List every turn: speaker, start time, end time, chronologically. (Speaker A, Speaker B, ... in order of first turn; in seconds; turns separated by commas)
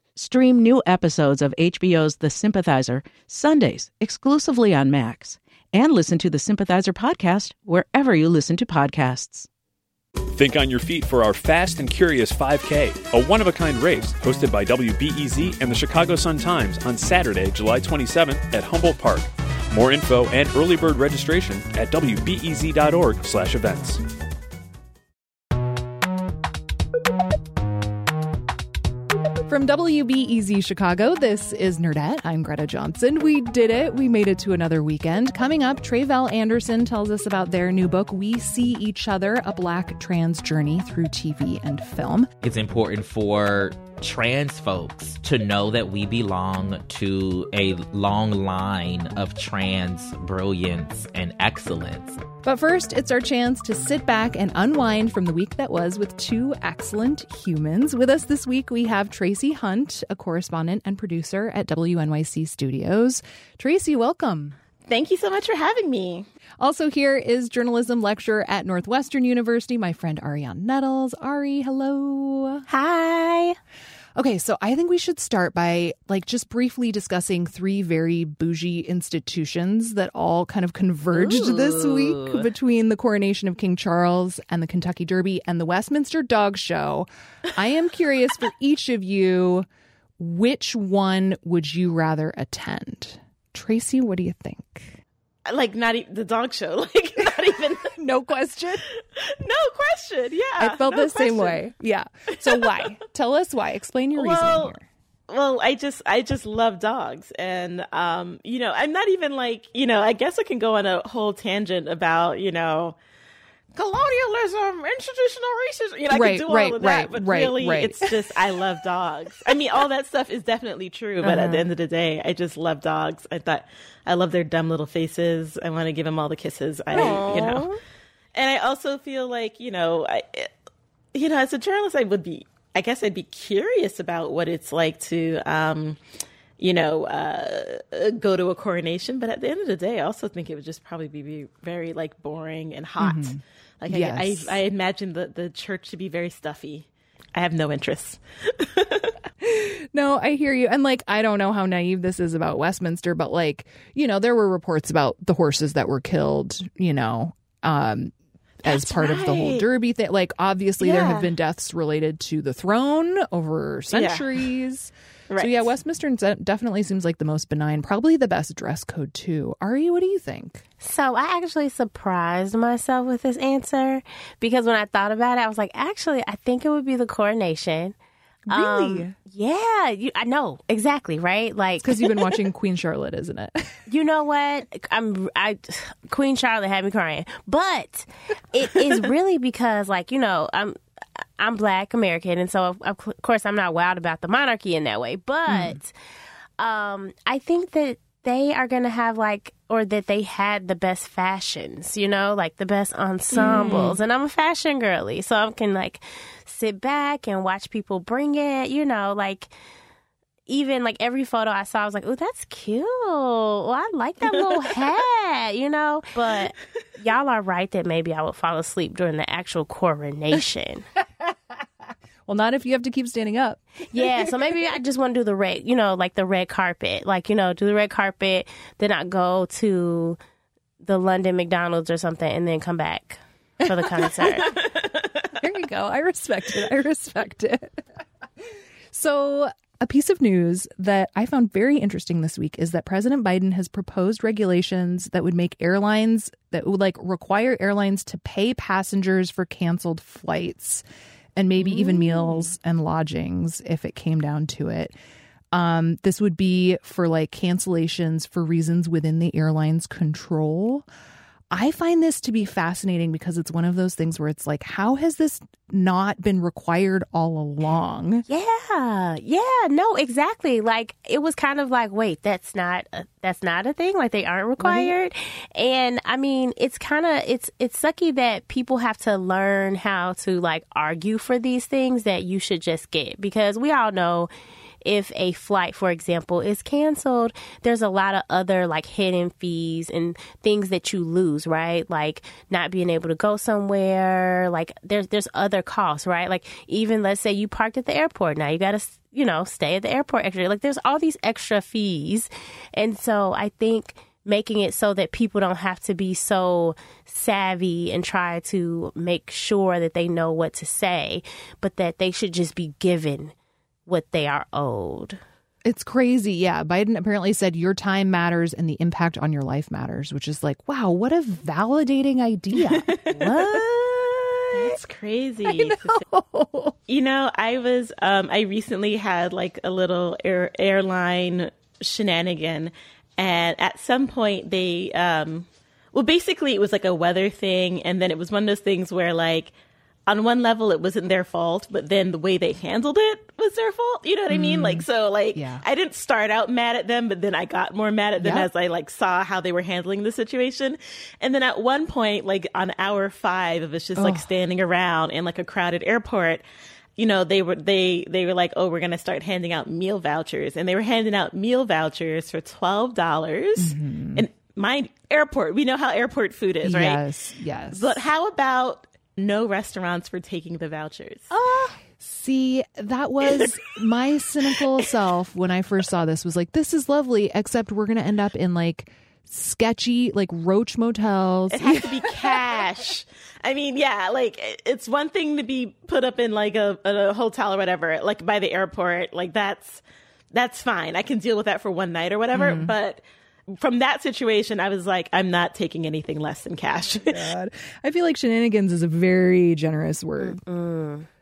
Speaker A: 0.1-9.5, Speaker B: 10.3-24.0, Speaker C: 29.5-42.3, Speaker D: 42.4-52.2, Speaker C: 52.4-64.6, Speaker E: 64.9-66.3, Speaker C: 66.6-72.7, Speaker F: 72.7-73.6, Speaker C: 74.2-89.7, Speaker F: 81.1-82.5, Speaker C: 90.2-95.0, Speaker E: 95.5-97.9, Speaker C: 97.9-98.8, Speaker E: 99.2-101.6, Speaker C: 100.6-104.8, Speaker E: 102.4-102.8, Speaker E: 104.1-104.7, Speaker E: 105.3-113.0, Speaker E: 113.7-127.7, Speaker C: 116.1-118.3, Speaker C: 121.2-121.6, Speaker F: 126.9-127.8, Speaker E: 128.3-130.5, Speaker E: 131.1-136.0, Speaker E: 136.6-149.1, Speaker C: 143.0-144.6, Speaker C: 149.4-158.1, Speaker E: 158.6-159.7, Speaker C: 158.6-170.6, Speaker E: 160.8-161.3, Speaker E: 163.9-164.3, Speaker E: 165.3-165.7, Speaker F: 170.8-177.9, Speaker C: 178.5-179.1, Speaker F: 178.5-182.3, Speaker C: 181.8-183.7, Speaker F: 183.9-190.8, Speaker F: 191.4-195.9, Speaker C: 195.5-195.8, Speaker F: 196.6-209.5, Speaker C: 203.3-203.9, Speaker E: 203.3-203.9, Speaker F: 210.5-220.8, Speaker C: 222.3-224.2, Speaker F: 223.9-230.2, Speaker F: 230.8-234.6, Speaker E: 234.5-235.0, Speaker C: 235.4-237.8, Speaker C: 238.9-250.8, Speaker C: 251.3-254.9, Speaker F: 251.6-252.5, Speaker C: 255.5-260.9, Speaker C: 261.5-268.2, Speaker F: 268.3-284.3, Speaker C: 274.6-274.9, Speaker F: 284.8-313.3, Speaker F: 313.9-315.2, Speaker C: 315.6-324.8, Speaker E: 322.6-323.4, Speaker E: 324.5-326.0, Speaker C: 325.4-326.8, Speaker E: 326.9-339.5, Speaker E: 340.1-356.4, Speaker C: 344.3-345.6, Speaker C: 348.2-348.5, Speaker C: 353.9-354.3, Speaker E: 357.0-367.0, Speaker C: 363.6-364.3, Speaker C: 366.6-368.0, Speaker E: 367.7-371.3, Speaker C: 371.3-382.4, Speaker E: 381.5-393.0, Speaker C: 392.3-392.7, Speaker E: 393.5-397.3, Speaker C: 397.0-400.4, Speaker F: 400.2-401.1